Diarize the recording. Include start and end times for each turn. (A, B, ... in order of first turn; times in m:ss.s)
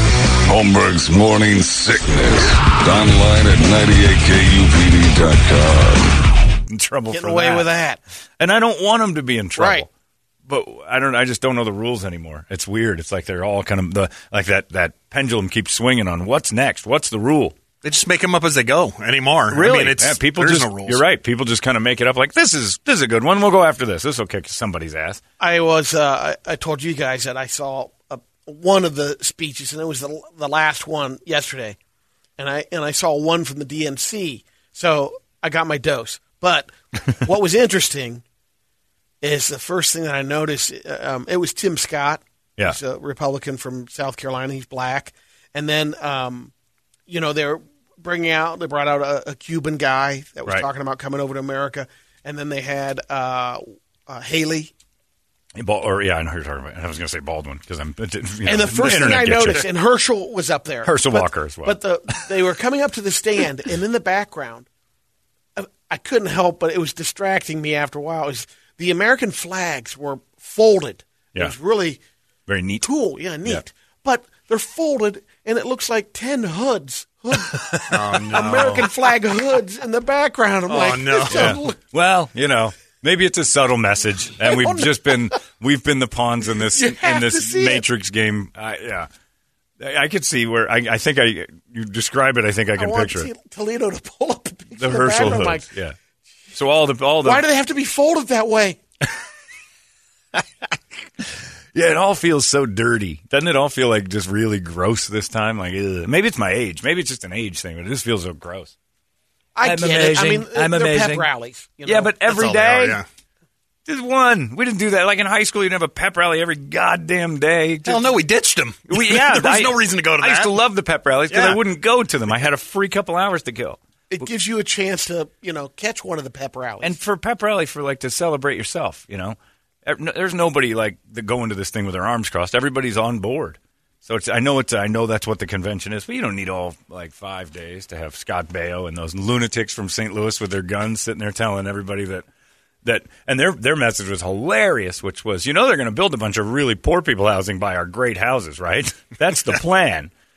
0:00.5-0:06.2 A
0:06.7-0:07.7 B
0:07.1-0:08.0 C
0:08.4-0:09.9 B
0:09.6-0:09.9 C
0:10.5-0:17.6 B
0:17.8-0:21.0 D
0:19.5-0:25.2 B
0:25.4-0:31.8 C
0:32.4-0:38.2 C
0:39.2-0:46.5 C
0:47.1-0:54.7 C
0:55.6-0:59.7 B
0:58.4-1:04.7 C
1:00.8-1:01.8 B
1:05.6-1:12.0 C
1:12.5-1:12.9 B
1:12.8-1:17.6 C
1:17.7-1:18.9 B
1:17.9-1:18.9 D
1:18.2-1:21.8 C
1:20.7-1:21.6 D
1:21.3-1:29.1 B
1:24.4-1:25.2 C
1:26.6-1:27.8 C
1:29.8-1:33.3 B
1:32.8-1:35.7 C
1:34.8-1:36.0 B
1:36.5-1:37.4 B
1:37.2-1:38.8 C
1:41.7-1:48.7 B
1:49.6-1:53.0 C
1:49.6-1:51.3 B
1:51.8-1:53.0 B
1:52.4-1:53.1 D
1:53.9-1:58.1 B
1:57.8-2:00.6 D
1:58.9-2:04.3 B
2:01.3-2:01.6 D
2:04.1-2:07.0 C
2:06.8-2:22.3 B
2:22.8-2:30.1 B